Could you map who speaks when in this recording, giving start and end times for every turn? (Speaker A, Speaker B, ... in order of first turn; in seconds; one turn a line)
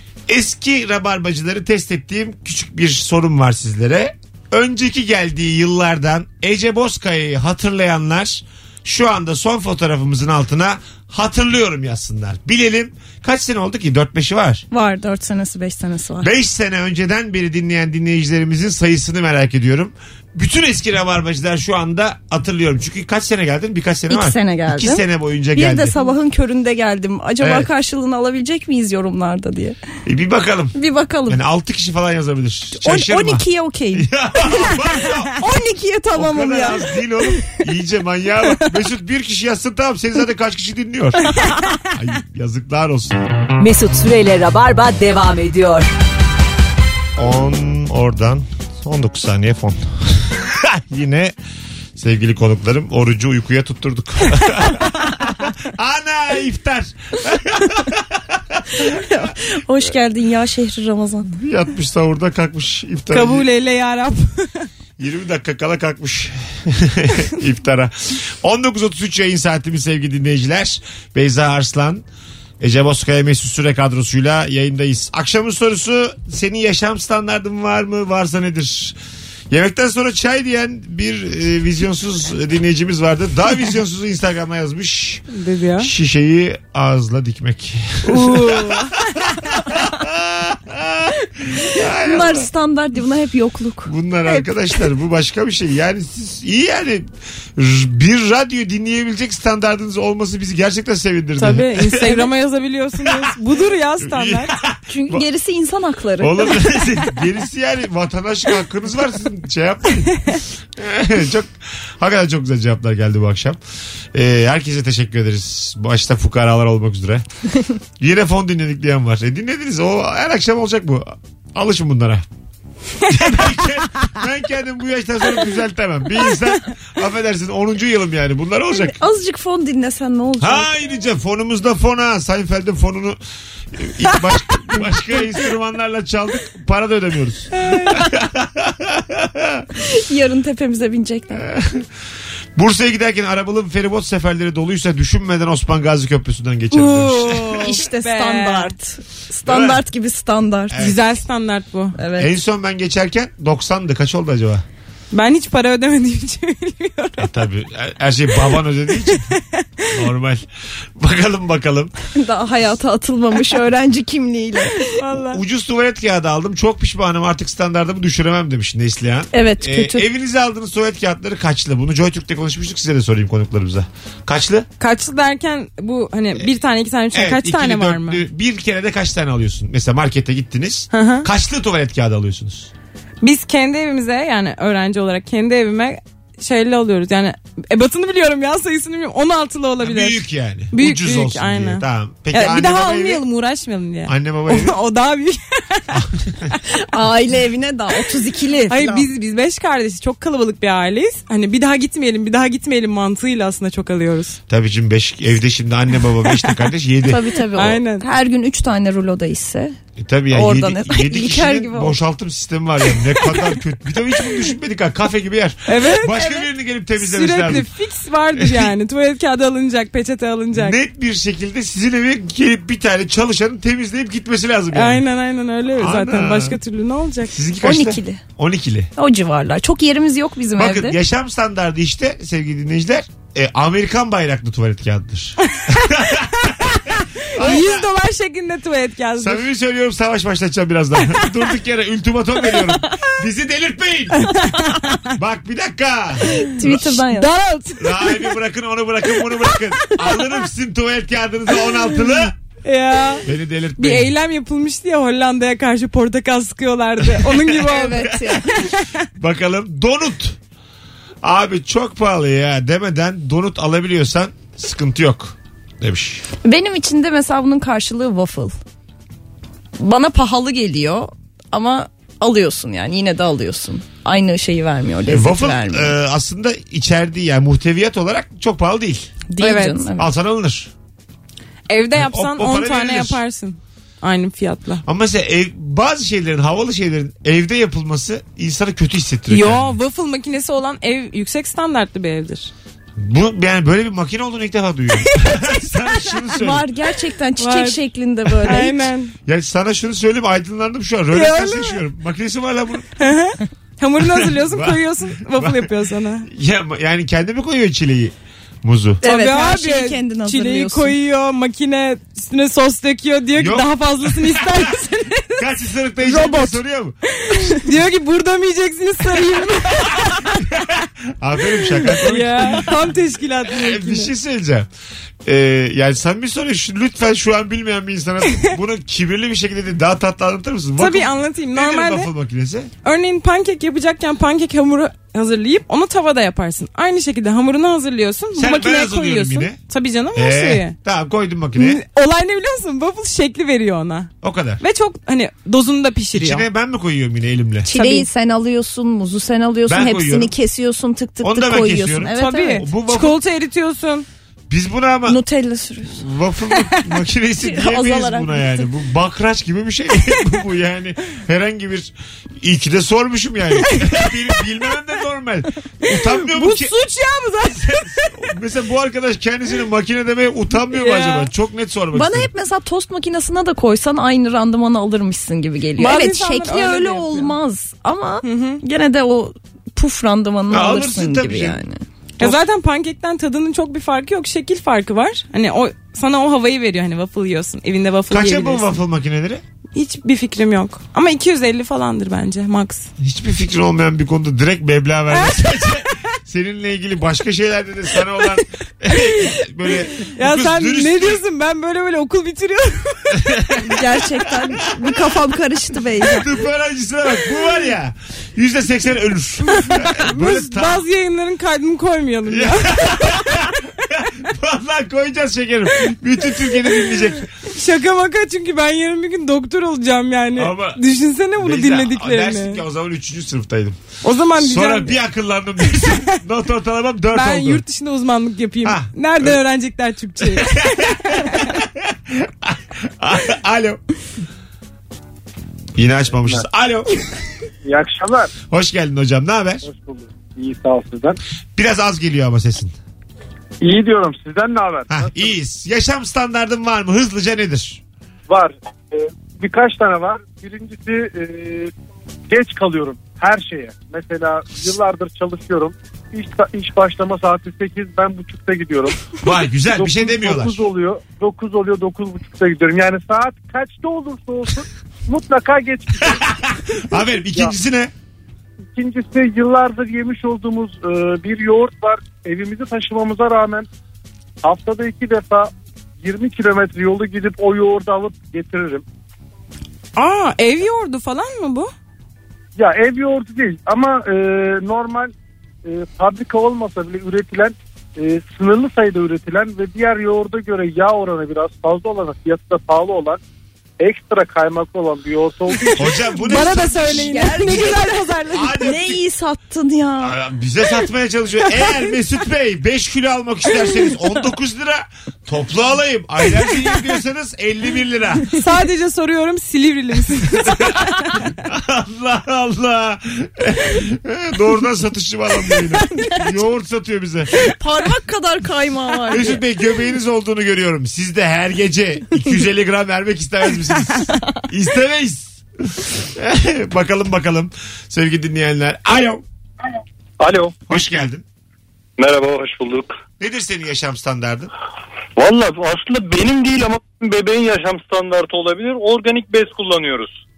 Speaker A: 0.3-14.6
Speaker B: 14.7-16.3
Speaker A: 16.2-25.9
Speaker B: 24.1-29.8
Speaker A: 27.4-27.7
Speaker A: 30.0-30.8
Speaker B: 30.7-31.4
Speaker A: 31.3-35.4
Speaker B: 32.8-34.1
Speaker B: 35.4-36.9
Speaker A: 36.1-43.2
Speaker C: 43.6-45.9
Speaker A: 47.2-51.3
Speaker A: 52.0-59.2
Speaker B: 58.8-61.3
Speaker A: 61.3-63.5
Speaker D: 63.1-64.7
Speaker A: 65.0-72.0
Speaker A: 72.6-79.0
Speaker A: 79.5-85.2
Speaker D: 85.3-85.9
Speaker A: 85.8-92.5
Speaker D: 88.0-89.3
Speaker B: 92.0-93.9
Speaker A: 93.8-102.2
Speaker D: 101.4-104.5
Speaker A: 103.0-103.3
Speaker A: 104.0-105.2
Speaker B: 104.9-106.7
Speaker A: 106.2-113.6
Speaker A: 114.1-117.2
Speaker A: 118.0-122.2
Speaker A: 123.0-128.9
Speaker B: 128.7-130.7
Speaker A: 130.4-133.2
Speaker A: 133.7-139.6
Speaker B: 139.8-141.5
Speaker A: 141.3-141.9
Speaker A: 142.6-147.8
Speaker D: 146.7-148.7
Speaker B: 147.6-150.8
Speaker A: 149.4-149.8
Speaker A: 150.7-151.0
Speaker D: 150.8-151.9
Speaker B: 152.0-152.3
Speaker A: 152.2-154.6
Speaker D: 155.1-157.3
Speaker A: 157.2-159.3
Speaker D: 159.1-160.0
Speaker A: 159.9-160.4
Speaker A: 161.0-161.9
Speaker B: 162.1-164.9
Speaker D: 164.8-165.4
Speaker A: 165.3-174.7
Speaker B: 169.3-170.1
Speaker D: 174.8-178.2
Speaker A: 177.1-182.7
Speaker D: 180.9-181.3
Speaker D: 183.2-190.2
Speaker A: 189.8-193.2
Speaker D: 190.7-196.0
Speaker A: 194.1-194.8
Speaker A: 195.9-196.5
Speaker B: 196.7-199.1
Speaker D: 198.7-204.4
Speaker A: 204.5-207.2
Speaker B: 207.1-209.8
Speaker D: 207.5-208.0
Speaker A: 210.0-217.7
Speaker B: 210.3-212.0
Speaker D: 215.7-216.4
Speaker D: 217.0-220.8
Speaker A: 218.3-218.7
Speaker A: 220.5-225.0
Speaker D: 224.7-227.3
Speaker A: 225.8-226.6
Speaker A: 227.3-228.9
Speaker B: 227.6-228.2
Speaker B: 229.0-231.0
Speaker A: 230.6-237.9
Speaker D: 236.9-239.4
Speaker A: 239.2-244.4
Speaker D: 244.2-245.0
Speaker A: 245.1-246.8
Speaker B: 246.3-247.3
Speaker D: 246.8-248.2
Speaker A: 247.8-252.3
Speaker D: 252.6-253.2
Speaker A: 253.2-254.1
Speaker D: 253.8-258.9
Speaker A: 257.0-258.4
Speaker B: 257.6-258.5
Speaker A: 259.2-260.4
Speaker A: 261.2-266.2
Speaker B: 266.4-268.5
Speaker B: 269.8-275.9
Speaker A: 275.1-279.2
Speaker B: 279.3-280.1
Speaker D: 279.4-279.9
Speaker A: 280.0-280.7
Speaker D: 281.7-284.8
Speaker A: 281.9-283.2
Speaker A: 284.8-289.7
Speaker D: 289.3-292.5
Speaker A: 293.0-296.6
Speaker B: 296.3-298.9
Speaker D: 297.4-297.8
Speaker D: 298.4-299.1
Speaker A: 299.2-302.9
Speaker D: 301.1-301.8
Speaker D: 303.0-306.3
Speaker A: 304.0-305.7
Speaker A: 306.2-309.0
Speaker B: 309.0-310.9
Speaker D: 309.0-315.4
Speaker A: 313.3-314.7
Speaker A: 315.4-317.0
Speaker D: 316.0-316.6
Speaker D: 317.2-320.6
Speaker A: 319.7-324.7
Speaker D: 321.7-324.1
Speaker A: 325.2-332.7
Speaker D: 330.8-332.1
Speaker D: 332.8-340.8
Speaker A: 338.3-339.6
Speaker A: 340.1-341.8
Speaker D: 341.6-346.4
Speaker A: 344.2-344.6
Speaker A: 346.1-347.7
Speaker B: 347.6-352.6
Speaker D: 347.7-348.1
Speaker A: 349.7-350.3
Speaker A: 351.2-353.2
Speaker D: 352.1-354.1
Speaker A: 354.5-355.2
Speaker B: 355.1-356.0
Speaker A: 355.9-366.7
Speaker B: 357.4-358.6
Speaker D: 366.0-368.1
Speaker A: 367.7-372.3
Speaker D: 370.7-371.3
Speaker B: 371.9-381.8
Speaker D: 375.8-377.4
Speaker D: 378.2-378.6
Speaker A: 380.5-381.6
Speaker D: 382.2-388.7
Speaker A: 388.1-389.4
Speaker D: 389.7-392.9
Speaker A: 393.0-401.2
Speaker D: 395.1-395.6
Speaker D: 398.9-399.4
Speaker D: 400.0-403.4
Speaker A: 403.1-405.1
Speaker B: 403.6-406.3
Speaker A: 406.0-410.9
Speaker D: 409.4-413.4
Speaker A: 412.3-417.3
Speaker D: 416.9-422.6
Speaker A: 420.4-420.8
Speaker A: 421.4-423.8
Speaker D: 424.0-425.0
Speaker A: 424.4-427.6
Speaker D: 425.7-426.2
Speaker D: 427.1-431.5
Speaker A: 428.6-429.4
Speaker A: 430.2-433.8
Speaker A: 435.7-436.9
Speaker E: 437.6-438.3
Speaker A: 438.5-439.6
Speaker E: 439.6-441.2
Speaker A: 441.6-442.8
Speaker E: 443.6-445.4
Speaker A: 444.9-447.8
Speaker E: 448.3-451.7
Speaker E: 452.3-459.1
Speaker A: 459.2-460.6
Speaker E: 459.7-466.2
Speaker A: 466.0-467.9
Speaker E: 468.7-473.7
Speaker E: 474.4-475.5
Speaker E: 476.0-478.8
Speaker D: 479.9-481.7
Speaker E: 482.6-485.1
Speaker E: 485.6-493.2
Speaker E: 493.8-495.9
Speaker A: 495.8-497.6
Speaker D: 496.2-498.7
Speaker B: 496.6-498.0
Speaker A: 498.3-499.0
Speaker B: 498.6-500.1
Speaker A: 500.0-508.3
Speaker D: 508.3-511.2
Speaker A: 510.4-517.3
Speaker B: 517.4-519.4
Speaker A: 519.1-529.2
Speaker F: 530.2-530.6
Speaker A: 530.7-531.2
Speaker F: 532.0-533.0
Speaker A: 533.2-534.5
Speaker F: 535.2-540.2